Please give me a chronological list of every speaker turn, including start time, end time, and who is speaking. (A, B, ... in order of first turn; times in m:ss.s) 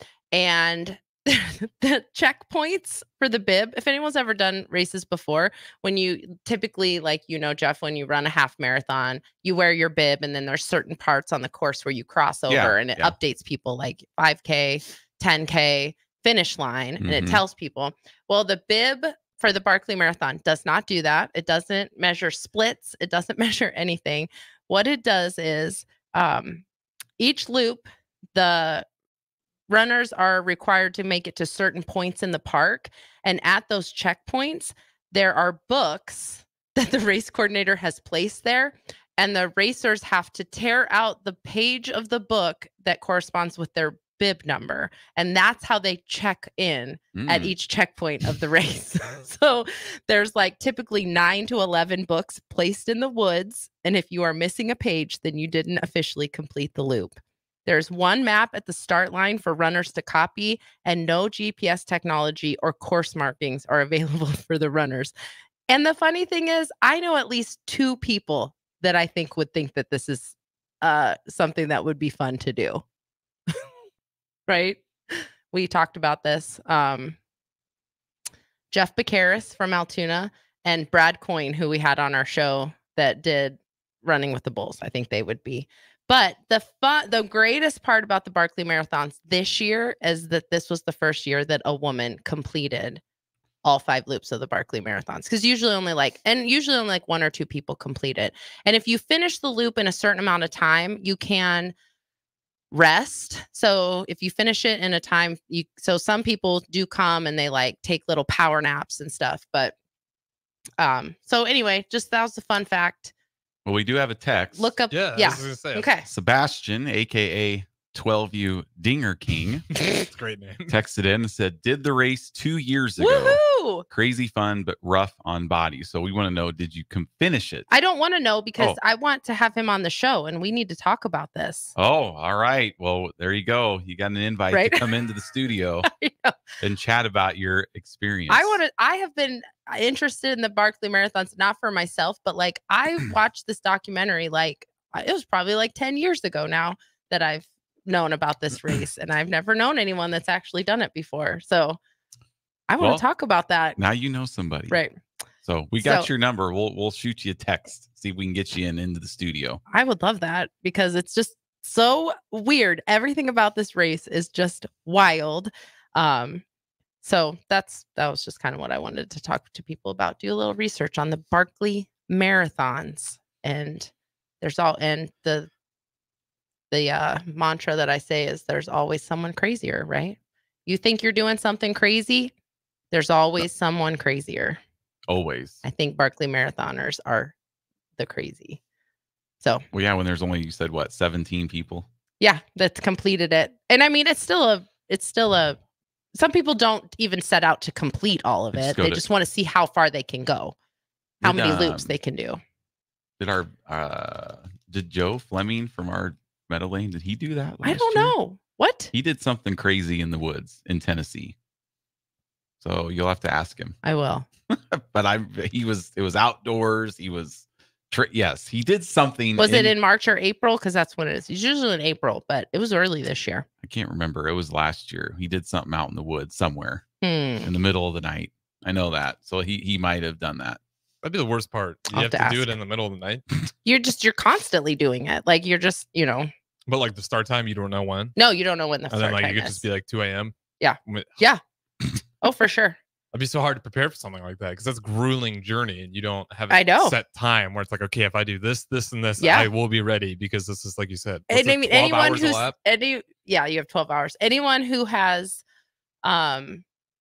0:00.3-0:26.6 A
0:12.5-0:13.1 B
0:17.0-0:17.4 B
0:27.2-0:28.8 A
0:29.7-1:05.1 A
0:47.1-0:47.5 B
1:05.7-1:12.8 A
1:14.5-1:17.2 A
1:18.7-1:33.0 A
1:33.6-1:41.7 A
1:42.7-1:49.7 A
1:50.8-1:53.1 A
1:53.6-1:54.6 B
1:54.6-1:56.0 A
1:54.9-1:55.9 C
1:56.1-1:59.6 B
1:59.8-2:00.7 C
2:00.7-2:07.7 B
2:03.0-2:03.8 A
2:07.7-2:11.7 A
2:11.8-2:15.8 B
2:14.5-2:14.8 A
2:15.8-2:16.4 A
2:16.6-2:18.6 B
2:18.3-2:31.8 A
2:32.7-2:33.8 A
2:33.8-2:34.8 B
2:34.7-2:35.0 A
2:35.4-2:39.6 B
2:35.8-2:36.1 A
2:39.7-2:46.4 A
2:47.0-2:53.9 A
2:54.4-2:55.5 A
2:56.7-3:02.3 A
3:02.9-3:04.6 A
3:05.1-3:05.6 B
3:05.6-3:07.3 A
3:08.0-3:08.6 A
3:09.7-3:11.8 B
3:12.2-3:15.6 A
3:16.1-3:20.6 A
3:18.5-3:19.0 B
3:21.2-3:21.9 B
3:21.2-3:22.4 A
3:23.2-3:28.1 B
3:27.6-3:28.9 A
3:28.9-3:31.3 B
3:32.6-3:33.8 B
3:33.8-3:34.3 A
3:34.5-3:39.7 B
3:39.4-3:43.5 A
3:43.6-3:46.8 B
3:47.0-3:47.5 A
3:47.4-3:50.6 B
3:51.0-3:53.2 C
3:51.9-3:52.5 A
3:53.6-3:56.3 A
3:56.7-3:58.2 C
3:58.2-3:59.6 A
3:58.9-4:00.3 C
4:00.6-4:01.4 A
4:00.8-4:01.2 C
4:02.2-4:02.8 A
4:03.1-4:12.5 C
4:06.5-4:06.9 A
4:09.2-4:09.5 A
4:11.3-4:15.4 A
4:16.0-4:16.6 A